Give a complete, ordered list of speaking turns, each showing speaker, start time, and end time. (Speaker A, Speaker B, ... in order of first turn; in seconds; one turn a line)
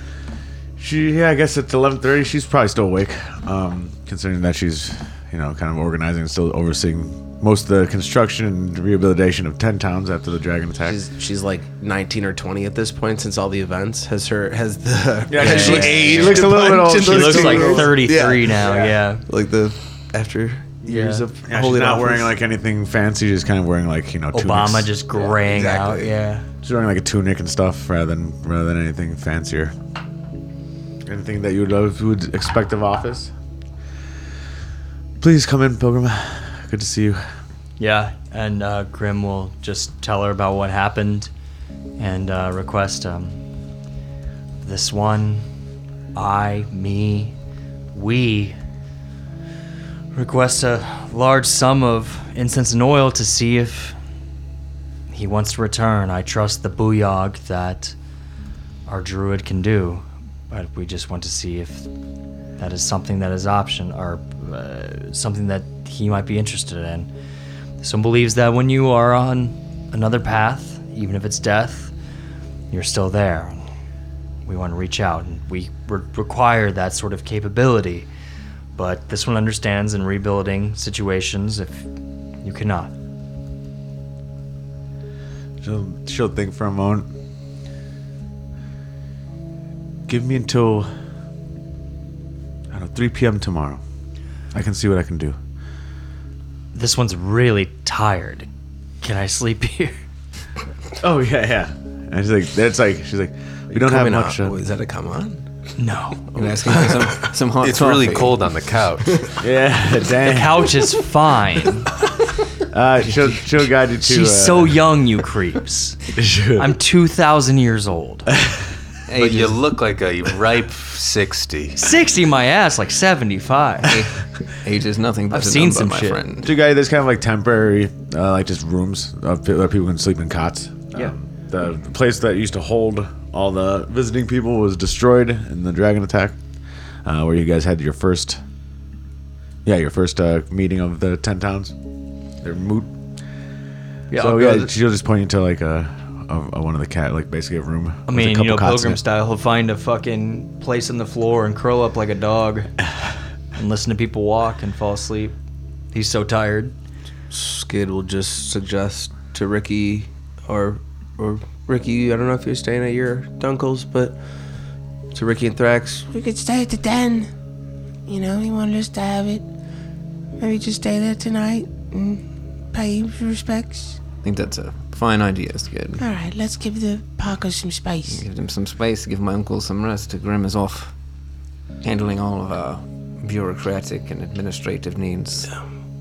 Speaker A: 0.8-11.0
Speaker B: 10.8-22.3
Speaker A: 15.3-18.1
Speaker C: 15.4-16.4
Speaker D: 15.4-19.2
Speaker D: 20.9-21.2
Speaker A: 21.5-24.9
Speaker D: 24.3-26.5
Speaker B: 25.1-26.2
Speaker A: 26.6-29.7
Speaker A: 31.1-33.3
Speaker A: 35.2-37.2
Speaker D: 37.8-41.3
Speaker D: 42.0-43.4
Speaker D: 44.6-45.5
Speaker D: 46.1-47.4
Speaker D: 47.9-48.6
Speaker D: 50.1-54.0
Speaker D: 55.1-58.0
Speaker D: 58.9-61.9
Speaker D: 62.6-67.1
Speaker D: 67.8-71.9
Speaker D: 72.7-73.6
Speaker D: 74.5-78.1
Speaker D: 78.8-81.9
Speaker D: 82.4-82.9
Speaker A: 85.6-87.1
Speaker A: 90.1-90.9
Speaker A: 92.7-93.8
Speaker A: 94.5-95.4
Speaker D: 96.7-98.5
Speaker D: 99.0-100.0
Speaker A: 101.0-104.6
Speaker B: 103.7-105.4
Speaker D: 105.8-106.3
Speaker E: 106.3-108.5
Speaker B: 106.7-107.0
Speaker C: 107.6-109.2
Speaker A: 109.4-110.7
Speaker D: 110.2-111.9
Speaker A: 112.7-114.8
Speaker D: 114.0-116.0
Speaker A: 116.2-116.7
Speaker D: 116.6-118.3
Speaker E: 119.1-119.6
Speaker C: 119.1-121.8
Speaker D: 121.8-124.0
Speaker E: 123.8-126.5
Speaker D: 125.3-126.2
Speaker A: 126.4-136.4
Speaker A: 137.1-138.4
Speaker A: 139.7-141.8
Speaker A: 142.4-142.9
Speaker D: 144.1-144.7
Speaker A: 144.1-149.0
Speaker D: 148.1-152.7
Speaker D: 153.6-155.3
Speaker D: 155.9-156.7
Speaker B: 157.3-164.2
Speaker B: 165.1-166.1
Speaker F: 166.1-167.3
Speaker F: 168.1-169.4
Speaker F: 170.4-174.0
Speaker E: 174.2-176.1
Speaker F: 176.0-178.2
Speaker E: 178.1-180.9
Speaker E: 181.8-185.5